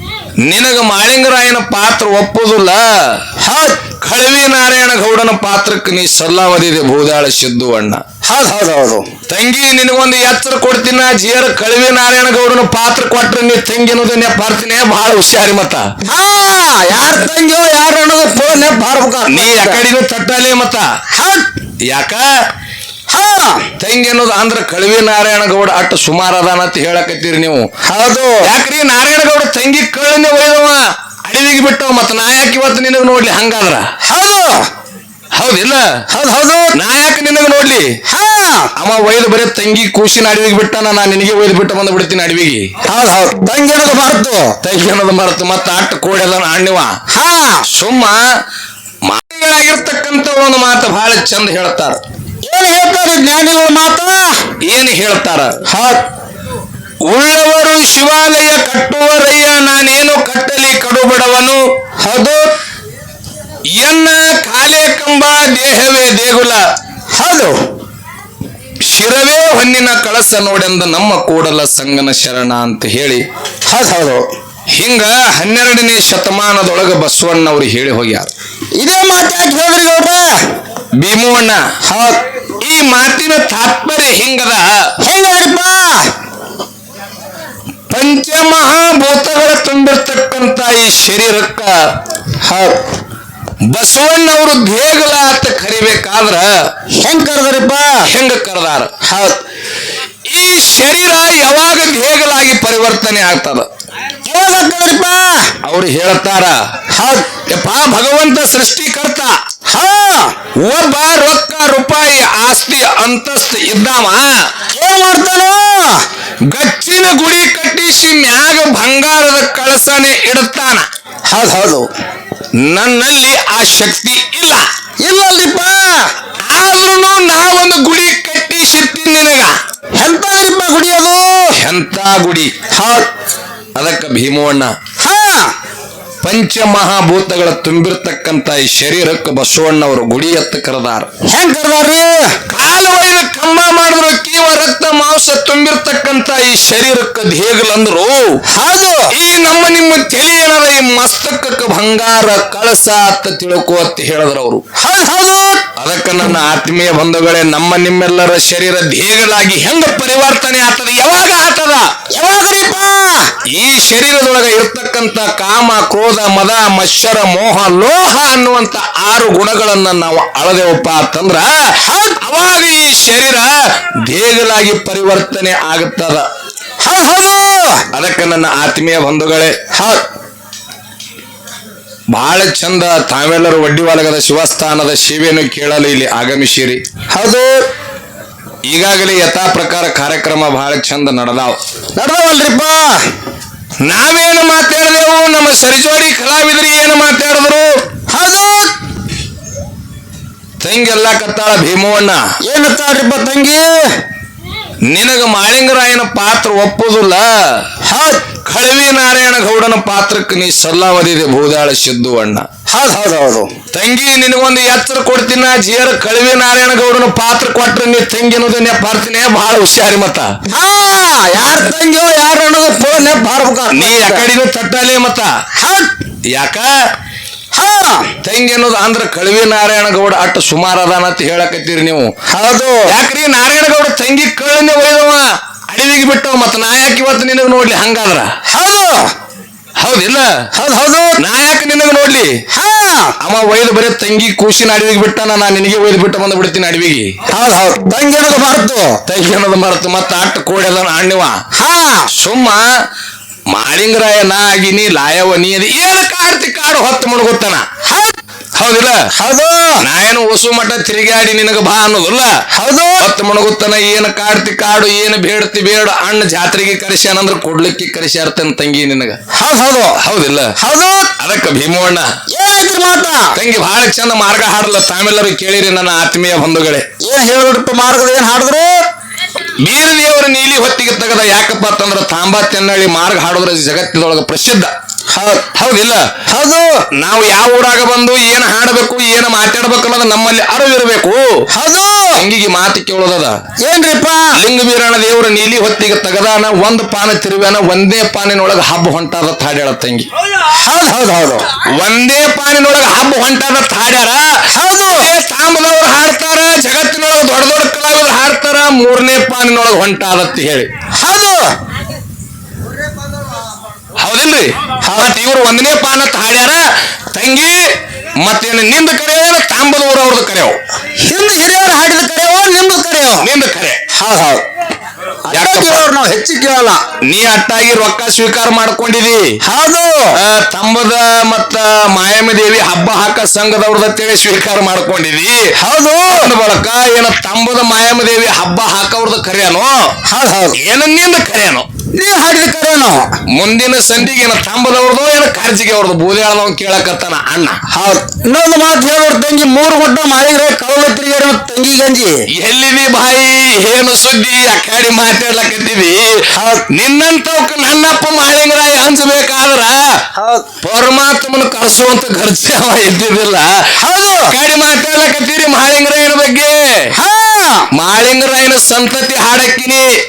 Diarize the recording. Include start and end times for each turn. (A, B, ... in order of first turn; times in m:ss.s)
0:00.4-0:02.8 A
0:03.4-0:03.8 B
0:04.0-0:08.0 A
0:08.2-0:09.0 B
0:09.3-0:15.8 A
0:16.0-0:19.8 B
0:19.3-0:20.8 A
0:21.1-0:21.5 B
0:21.9-0:22.2 A
0:23.1-0:23.6 B
0:23.8-0:27.7 A
0:27.8-0:28.4 B
0:28.4-0:33.8 A
0:34.0-0:34.7 B
0:35.4-0:35.8 A
0:36.1-0:36.7 B
0:36.7-0:37.9 A
0:38.1-0:38.7 B
0:38.8-0:42.7 A
0:42.8-0:44.6 B
0:44.6-0:46.9 A
0:47.1-0:47.6 B
0:47.7-0:48.2 A
0:49.1-0:52.0 A
0:52.4-0:54.4 B
0:54.7-0:55.5 A
0:55.7-0:56.0 B
0:57.1-1:01.6 A
1:02.0-1:02.4 B
1:03.7-1:06.6 A
1:07.2-1:07.6 B
1:08.9-1:13.2 A
1:13.6-1:14.3 B
1:14.7-1:18.3 A
1:18.8-1:20.4 B
1:21.0-1:21.6 A
1:21.8-1:22.2 B
1:22.6-1:24.7 A
1:25.0-1:26.1 B
1:27.9-1:31.7 A
1:32.4-1:32.8 B
1:33.7-1:36.5 A
1:37.0-1:38.1 B
1:38.0-1:38.9 A
1:39.0-1:39.4 B
1:40.3-1:43.6 A
1:44.2-1:45.5 B
1:45.6-1:46.5 A
1:46.9-1:47.3 B
1:47.5-1:49.3 A
1:49.7-1:50.3 B
1:50.6-1:54.3 A
1:54.7-1:56.0 B
1:56.5-2:00.8 A
2:01.3-2:01.9 B
2:02.6-2:04.6 A
2:05.0-2:06.1 B
2:06.5-2:09.5 A
2:10.0-2:11.6 B
2:11.5-2:12.5 A
2:12.7-2:13.1 B
2:13.8-2:14.7 A
2:15.0-2:15.5 B
2:16.2-2:21.1 A
2:21.2-2:22.3 B
2:22.5-2:28.3 A
2:28.5-2:29.1 B
2:29.1-2:34.6 A
2:34.8-2:35.6 B
2:35.8-2:41.9 A
2:42.1-2:43.3 B
2:43.5-2:51.5 A
2:51.8-2:52.2 B
2:52.2-2:53.5 A
2:54.1-2:56.2 A
2:56.8-2:57.8 B
2:57.9-2:59.5 A
2:59.7-3:00.0 B
3:02.1-3:06.8 A
3:07.1-3:07.6 B
3:08.7-3:11.6 A
3:12.0-3:13.0 B
3:13.8-3:17.7 A
3:18.1-3:18.7 B
3:20.6-3:22.2 A
3:22.4-3:23.9 B
3:24.9-3:27.3 A
3:27.8-3:28.2 B
3:28.4-3:32.5 A
3:32.7-3:33.5 B
3:33.7-3:40.3 A
3:40.5-3:44.2 B
3:43.7-3:45.3 A
3:45.6-3:45.9 B
3:46.3-3:46.7 A
3:47.5-3:48.1 B
3:48.2-3:52.1 A
3:52.3-3:52.9 B
3:52.8-3:58.3 A
3:58.5-3:59.1 B
3:59.8-4:00.3 A
4:00.5-4:01.2 B
4:01.2-4:02.3 A
4:02.5-4:03.1 B
4:03.2-4:07.1 A
4:07.3-4:09.0 B
4:09.0-4:11.4 A
4:11.6-4:12.1 B
4:12.1-4:12.6 A
4:13.5-4:17.6 A
4:17.8-4:18.2 B
4:18.6-4:19.0 A
4:19.1-4:19.8 B
4:19.8-4:22.3 A
4:22.5-4:23.1 B
4:23.0-4:29.2 A
4:29.3-4:30.0 B
4:30.0-4:30.5 A
4:30.6-4:31.1 B
4:31.2-4:32.1 A
4:32.3-4:33.3 B
4:33.3-4:36.8 A
4:37.0-4:38.8 B
4:39.6-4:44.7 A
4:45.1-4:45.4 B
4:45.5-4:46.0 A
4:46.3-4:46.8 B
4:47.0-4:51.4 A
4:51.5-4:52.2 B
4:52.1-4:53.4 A
4:53.6-4:54.3 B
4:54.3-5:00.1 A
5:00.5-5:01.5 B
5:01.8-5:10.7 A
5:04.5-5:05.1 B
5:11.0-5:11.5 B
5:14.0-5:17.7 A
5:14.8-5:15.1 B
5:18.2-5:20.6 A
5:21.0-5:23.3 B
5:23.2-5:23.8 A
5:23.9-5:24.4 B
5:25.3-5:26.8 B
5:25.3-5:25.8 A
5:27.0-5:29.4 A
5:29.4-5:30.2 B
5:30.1-5:35.5 A
5:35.6-5:36.3 B
5:36.1-5:39.9 A
5:40.0-5:40.6 B
5:40.5-5:41.6 A
5:41.9-5:43.1 B
5:43.3-5:47.6 A
5:47.7-5:52.2 B
5:52.3-5:56.2 A
5:56.3-5:56.6 B
5:56.7-6:00.0 A
6:00.1-6:00.4 B
6:00.6-6:03.5 A
6:03.8-6:04.3 B
6:04.3-6:06.9 A
6:06.9-6:07.7 B
6:07.7-6:09.9 A